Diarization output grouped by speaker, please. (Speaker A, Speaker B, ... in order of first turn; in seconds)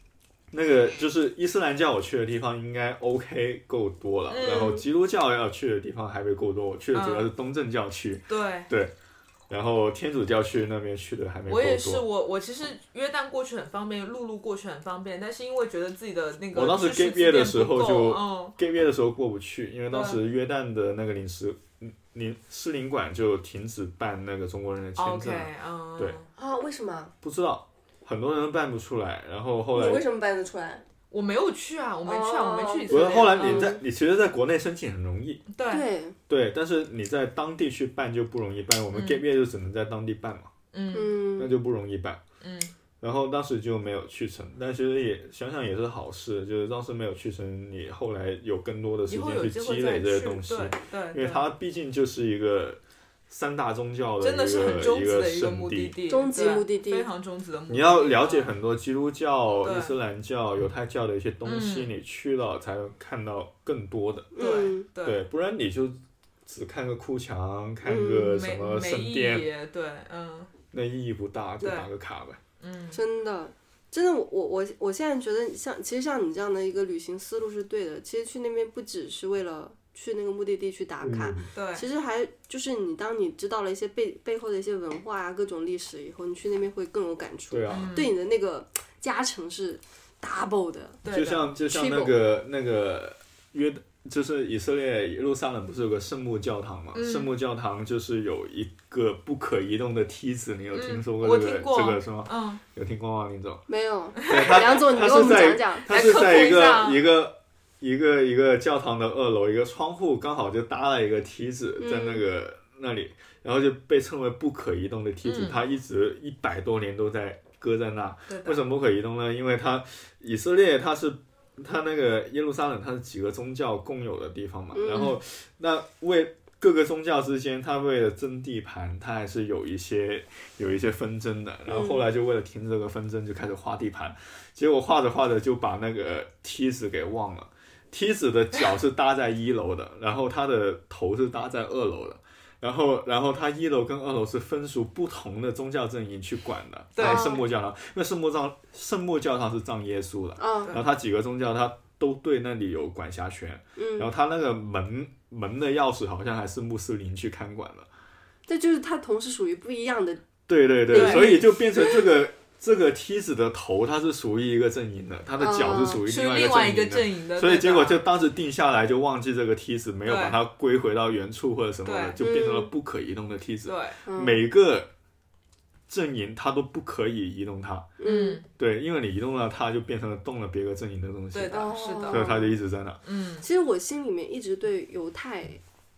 Speaker A: 0.5-8.9, 9.5-12.0, 16.5-26.2, 27.2-30.0, 32.9-35.4, 36.3-40.5, 41.4-42.2, 43.0-56.0, 57.7-64.3, 65.0-69.5, 70.7-72.4, 81.0-81.5, 87.5-88.0, 91.1-103.6, 104.2-157.9, 160.5-174.9, 175.9-177.9, 178.5-183.0
Speaker B: 4.3-4.8, 6.9-7.3, 8.3-8.7, 11.5-18.6, 19.9-20.2, 25.0-26.3, 31.1-33.8, 35.5-35.8, 38.9-39.2, 40.7-41.2, 42.4-42.7, 49.1-51.4, 54.2-58.5, 59.6-59.9, 61.4-61.9, 64.4-65.2, 68.2-70.5, 71.6-71.9, 72.6-73.0, 81.5-81.8, 87.7-88.1, 91.0-91.5, 96.9-97.4, 100.7-102.6, 104.3-107.0, 115.2-115.6, 118.3-118.6, 146.9-147.4, 160.9-161.4, 166.0-168.0, 170.1-170.4, 171.8-172.2, 173.7-174.0, 178.0-178.4, 181.3-182.4, 183.0-183.4
Speaker C: 26.4-27.1, 29.7-30.8, 32.0-33.8, 35.7-36.1, 40.9-41.5, 56.1-57.1, 64.3-64.9, 67.8-68.3, 72.9-91.0, 91.6-92.2, 103.7-105.9, 111.8-112.2, 124.7-125.1, 131.7-132.0, 147.0-147.4, 150.4-150.7, 153.8-154.1, 158.5-160.2, 160.9-161.9, 165.4-166.0, 172.2-172.7, 174.0-174.4, 178.0-178.4, 181.5-182.6, 183.4-185.6